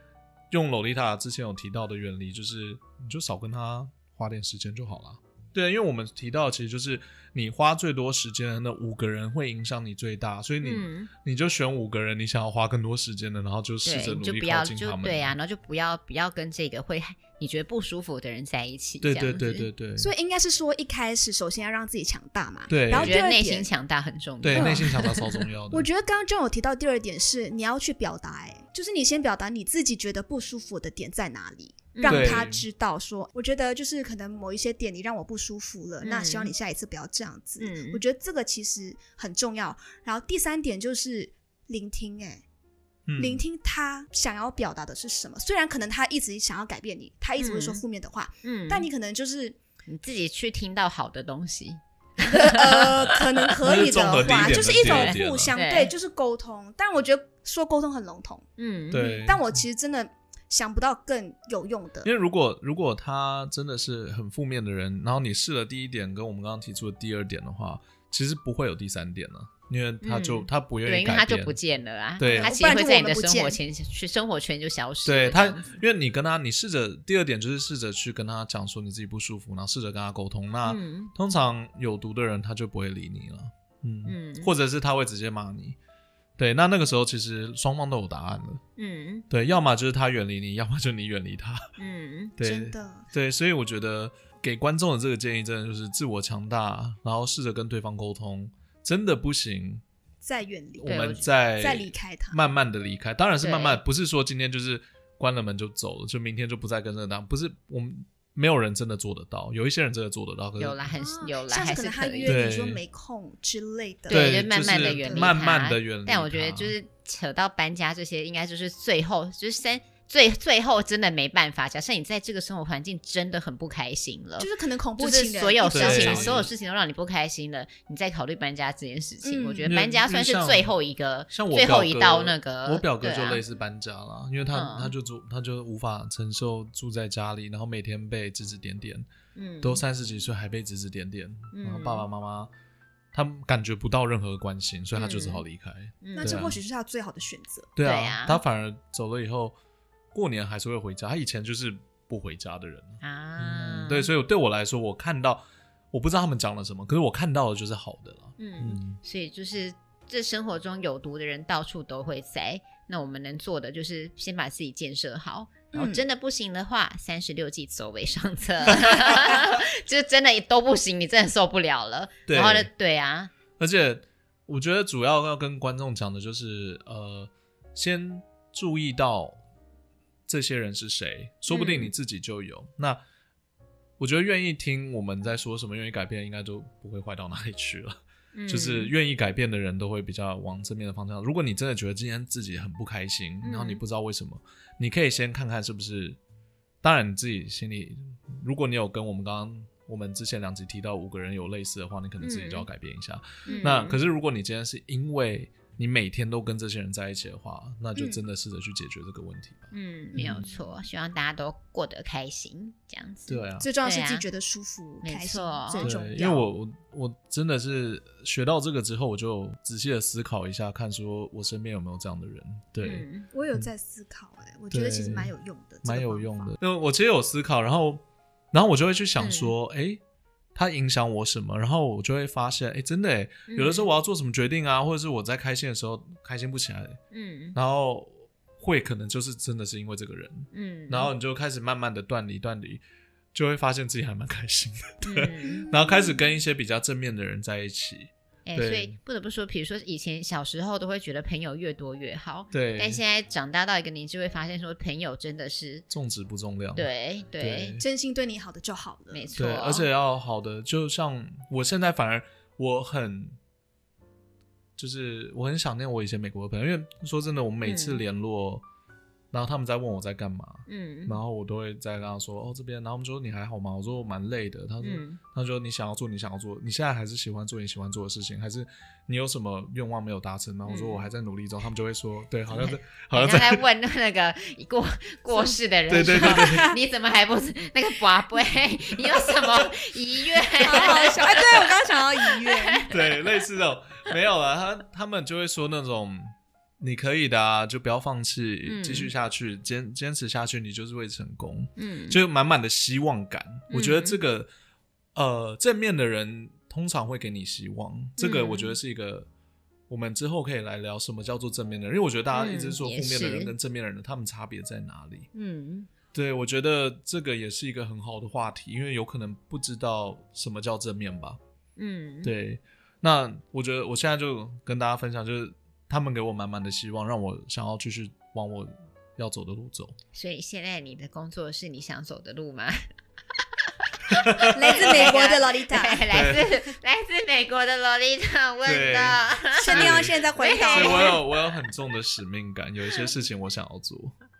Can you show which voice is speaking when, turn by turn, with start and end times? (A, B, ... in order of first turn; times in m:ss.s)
0:00.5-0:15.3 A
0:10.6-0:11.1 B
0:13.8-0:19.7 B
0:19.0-0:20.1 A
0:20.0-0:23.7 C
0:22.7-0:23.2 A
0:23.0-0:25.3 B
0:24.4-0:25.9 A
0:24.5-0:25.0 C
0:25.7-0:42.4 C
0:32.0-0:32.4 B
0:32.0-0:32.6 A
0:36.0-0:36.5 B
0:37.6-0:38.0 B
0:43.1-0:43.4 A
0:43.2-0:49.6 C
0:47.4-0:47.8 B
0:48.4-0:48.9 B
0:49.9-0:53.5 B
0:52.2-1:02.1 C
0:53.6-0:55.6 A
0:54.7-0:55.9 B
0:58.6-0:59.1 B
0:58.9-0:59.6 A
1:02.0-1:11.6 A
1:10.0-1:15.7 B
1:12.2-1:12.6 A
1:12.2-1:13.6 C
1:15.0-1:25.8 A
1:20.6-1:21.1 B
1:24.1-1:24.5 B
1:26.4-1:28.6 A
1:28.8-1:29.2 B
1:29.3-1:31.6 A
1:31.8-1:32.4 B
1:32.4-1:39.8 A
1:32.4-1:33.1 C
1:40.2-1:42.4 C
1:40.8-1:50.8 A
1:40.8-1:41.2 B
1:43.4-1:43.8 B
1:50.6-1:52.4 B
1:51.0-1:55.2 C
1:52.3-1:52.8 A
1:54.1-2:13.4 B
1:54.1-1:56.8 A
2:04.4-2:06.4 C
2:05.6-2:06.5 A
2:09.2-2:09.8 C
2:09.7-2:10.7 A
2:11.3-2:19.1 A
2:14.5-2:14.9 B
2:19.4-2:19.8 B
2:19.6-2:22.5 A
2:21.5-2:22.1 B
2:23.1-2:26.6 A
2:25.0-2:25.4 B
2:26.0-2:26.4 B
2:26.1-2:27.7 C
2:27.8-2:29.6 A
2:27.8-2:28.4 B
2:30.1-2:39.0 A
2:33.0-2:34.1 B
2:38.4-2:53.3 B
2:45.7-2:46.0 C
2:48.7-2:49.4 A
2:52.3-2:52.7 A
2:53.6-2:59.4 A
3:00.3-3:03.0 A
3:01.5-3:01.9 B
3:04.0-3:16.2 A
3:08.3-3:08.9 B
3:13.4-3:13.8 B
3:16.8-3:30.5 A
3:22.2-3:22.7 B
3:23.4-3:23.7 C
3:23.5-3:24.0 B
3:28.0-3:28.2 C
3:29.7-3:34.2 B
3:33.3-3:33.7 A
3:33.6-3:36.5 C
3:35.0-3:35.9 B
3:35.8-3:43.7 A
3:42.8-3:43.3 B
3:43.3-3:46.6 C
3:44.7-3:45.3 A
3:45.8-3:50.0 A
3:49.2-3:49.5 B
3:50.6-3:57.0 A
3:53.5-3:53.9 B
3:57.1-3:57.6 B
3:57.6-4:02.8 A
4:00.5-4:01.1 B
4:03.3-4:09.0 A
4:05.0-4:05.7 B
4:05.5-4:06.2 C
4:08.5-4:15.9 B
4:12.5-4:13.0 A
4:15.9-4:17.8 A
4:16.8-4:17.8 B
4:17.8-4:19.3 C
4:19.1-4:19.9 B
4:19.4-4:23.4 A
4:24.8-4:28.6 A
4:27.6-4:28.0 B
4:29.3-4:43.6 A
4:30.7-4:31.2 B
4:34.8-4:35.2 B
4:40.7-4:41.1 B
4:42.5-4:51.7 B
4:45.3-4:46.8 C
4:45.9-4:46.8 A
4:49.2-4:49.6 A
4:50.6-4:52.9 C
4:50.8-4:51.5 A
4:52.3-4:53.0 B
4:52.9-5:04.5 A
4:58.6-4:59.1 B
5:01.8-5:02.2 B
5:03.7-5:04.2 B
5:05.2-5:09.3 A
5:08.2-5:08.8 B
5:09.9-5:15.3 A
5:12.3-5:13.5 B
5:15.4-5:15.9 B
5:16.1-5:21.4 A
5:21.8-5:22.3 B
5:22.2-5:30.0 A
5:30.1-5:32.9 B
5:34.1-5:35.1 A
5:34.1-5:41.2 B
5:34.5-5:36.0 C
5:36.1-5:36.5 A
5:38.6-5:40.2 A
5:39.6-5:41.2 C
5:40.7-5:44.2 A